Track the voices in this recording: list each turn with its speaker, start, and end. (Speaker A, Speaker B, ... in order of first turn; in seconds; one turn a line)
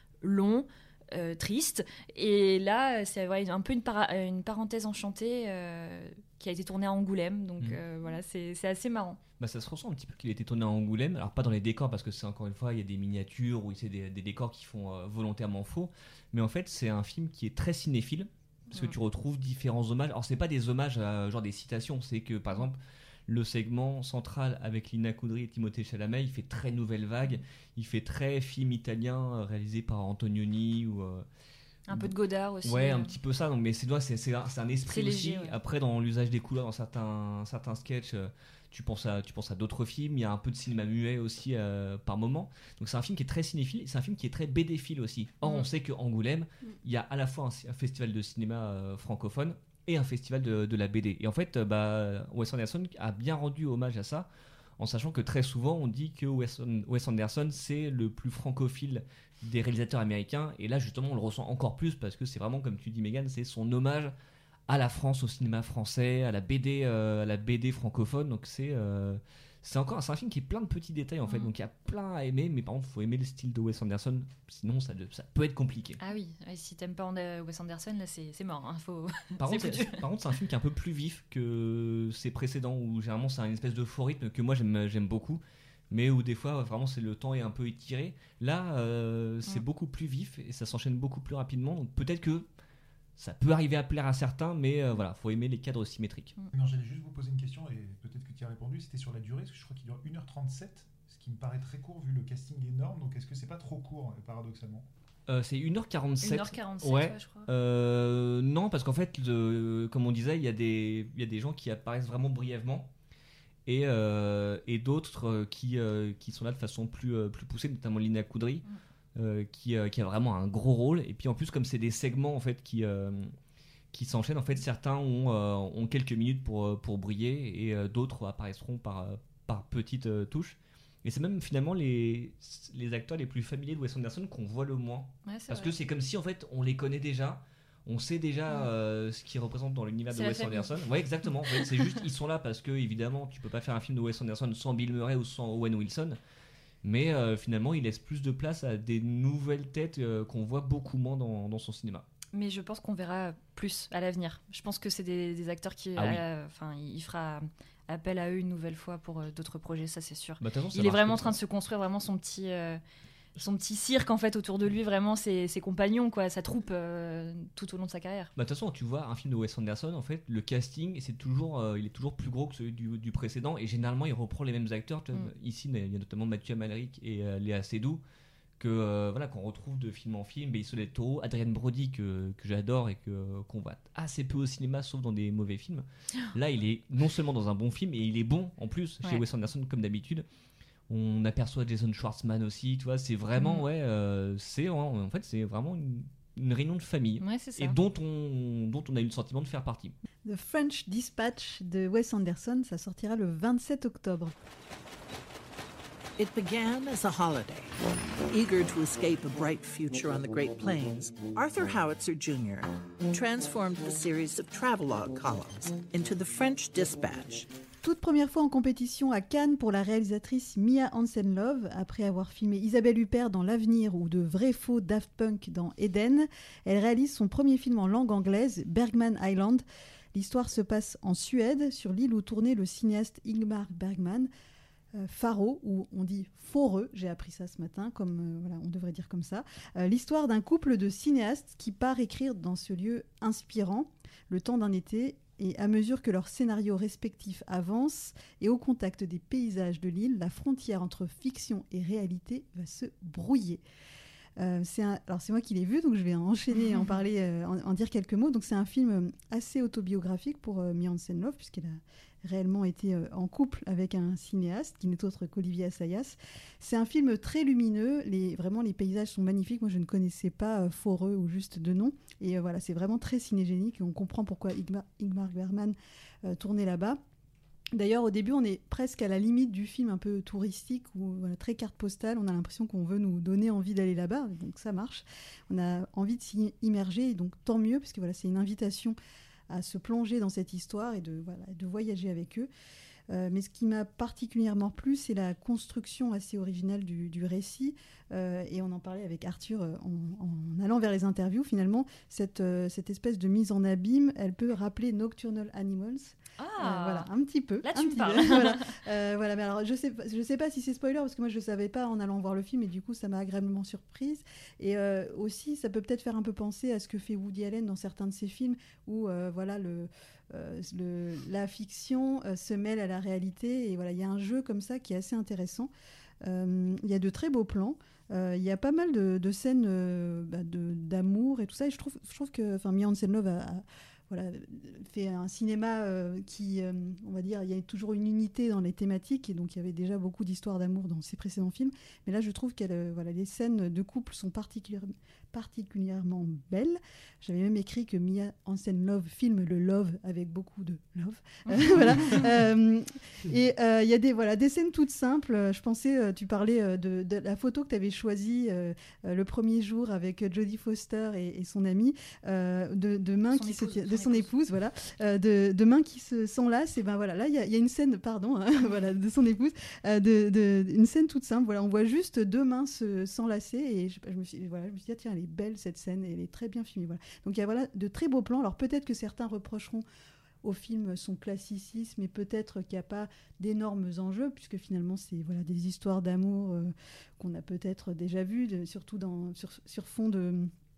Speaker A: 0.2-9.2
Speaker B: 9.4-31.3
Speaker A: 18.7-19.0
Speaker A: 31.9-33.1
Speaker B: 32.6-54.3
Speaker A: 34.9-35.6
Speaker B: 54.8-64.2
Speaker B: 64.7-76.0
Speaker A: 71.3-71.5
Speaker A: 76.0-80.0
Speaker B: 79.4-92.5
Speaker B: 93.2-96.3
Speaker C: 96.5-104.9
Speaker B: 105.3-112.9
Speaker A: 106.2-107.5
Speaker B: 113.7-118.6
Speaker B: 119.2-123.3
Speaker B: 123.9-146.2
Speaker A: 135.2-135.7
Speaker A: 140.1-140.7
Speaker A: 141.5-142.0
Speaker B: 146.8-152.1
Speaker A: 152.3-162.8
Speaker B: 156.0-156.2
Speaker B: 160.4-161.4
Speaker A: 163.4-168.3
Speaker B: 168.4-178.0
Speaker B: 178.6-190.2
Speaker B: 190.9-200.0
Speaker A: 193.4-193.7
Speaker A: 197.2-197.8
Speaker D: 200.3-204.3
Speaker E: 206.2-207.8
Speaker E: 208.3-217.5
Speaker D: 217.8-234.3
Speaker D: 235.0-253.6
Speaker D: 254.4-277.0
Speaker D: 277.7-289.0
Speaker D: 289.5-292.5
Speaker D: 293.1-325.7
Speaker A: 306.4-307.1
Speaker A: 307.6-308.7
Speaker D: 326.2-379.8
Speaker A: 351.5-352.3
Speaker A: 363.3-364.3
Speaker D: 380.4-390.5